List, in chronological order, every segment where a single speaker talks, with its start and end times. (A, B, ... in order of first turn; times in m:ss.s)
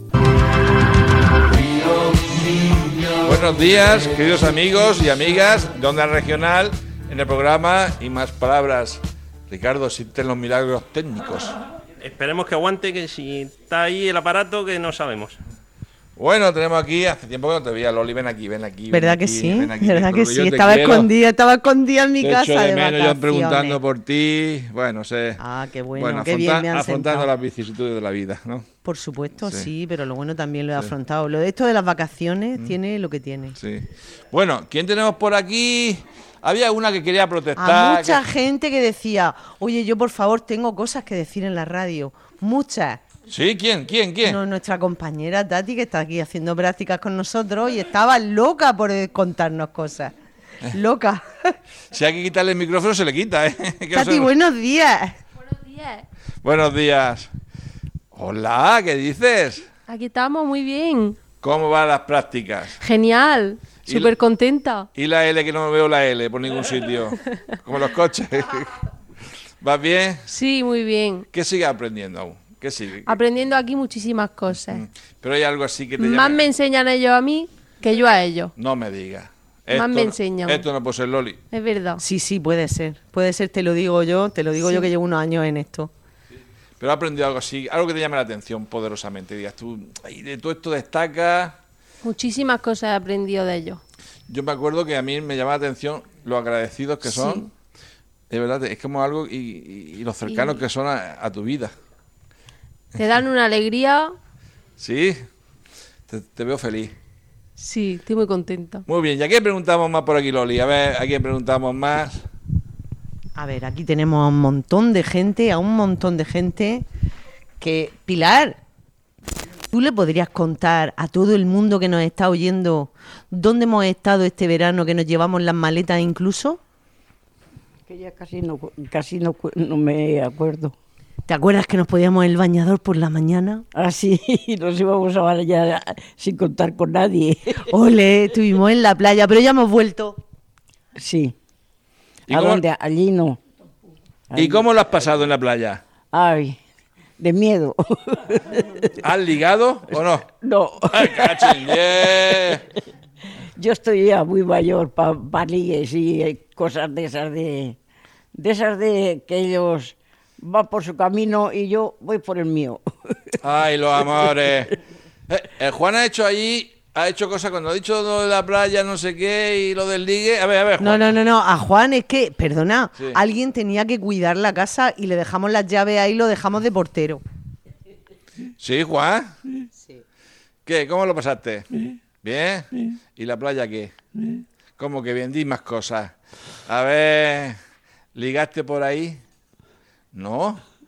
0:03.2-0:11.6 A
0:12.0-0:15.4 B
0:16.2-0:21.1 A
0:18.9-0:23.8 C
0:22.2-0:25.4 A
0:25.4-0:27.3 C
0:25.9-0:28.6 A
0:28.8-0:33.6 C
0:29.4-0:29.7 A
0:33.6-0:38.2 A
0:37.6-0:43.0 C
0:43.3-0:44.4 A
0:44.2-0:50.1 C
0:50.7-0:51.5 C
0:51.9-0:54.3 A
0:53.9-0:55.2 C
0:55.6-0:56.0 D
0:56.4-0:57.3 A
0:58.1-0:59.6 A
0:59.9-1:01.2 D
1:01.4-1:02.8 A
1:02.8-1:04.9 D
1:03.8-1:04.1 A
1:04.9-1:08.8 A
1:09.6-1:10.3 A
1:10.3-1:11.2 D
1:11.3-1:13.1 A
1:13.0-1:14.8 D
1:14.5-1:16.4 A
1:16.0-1:18.5 D
1:18.6-1:21.4 A
1:19.7-1:20.7 D
1:21.5-1:22.0 D
1:22.0-1:25.9 C
1:24.6-1:24.9 D
1:26.8-1:31.6 A
1:32.0-1:33.8 D
1:34.3-1:37.5 A
1:37.0-1:37.5 D
1:38.3-1:41.7 A
1:40.3-1:40.6 D
1:42.9-1:44.2 D
1:44.8-1:45.2 A
1:46.1-1:46.9 A
1:47.6-1:48.8 D
1:48.8-1:52.2 A
1:53.4-1:56.8 C
1:57.6-1:58.6 C
1:59.7-2:06.6 C
2:07.9-2:10.7 E
2:11.3-2:13.6 C
2:13.7-2:17.7 E
2:17.6-2:20.2 C
2:21.0-2:21.3 E
2:22.3-2:23.4 E
2:22.3-2:22.6 A
2:24.3-2:24.7 E
2:24.3-2:25.8 A
2:26.1-2:26.6 E
2:27.2-2:28.9 E
2:29.0-2:30.2 A
2:29.9-2:32.6 E
2:30.9-2:32.6 A
2:33.6-2:37.8 E
2:38.3-2:43.4 E
2:43.4-2:44.7 A
2:45.3-2:51.2 A
2:50.8-2:57.2 C
2:58.6-2:59.3 A
3:00.6-3:01.7 A
3:02.2-3:03.9 A
3:04.8-3:06.1 A
3:06.7-3:07.6 A
3:08.1-3:09.2 A
3:10.1-3:10.6 A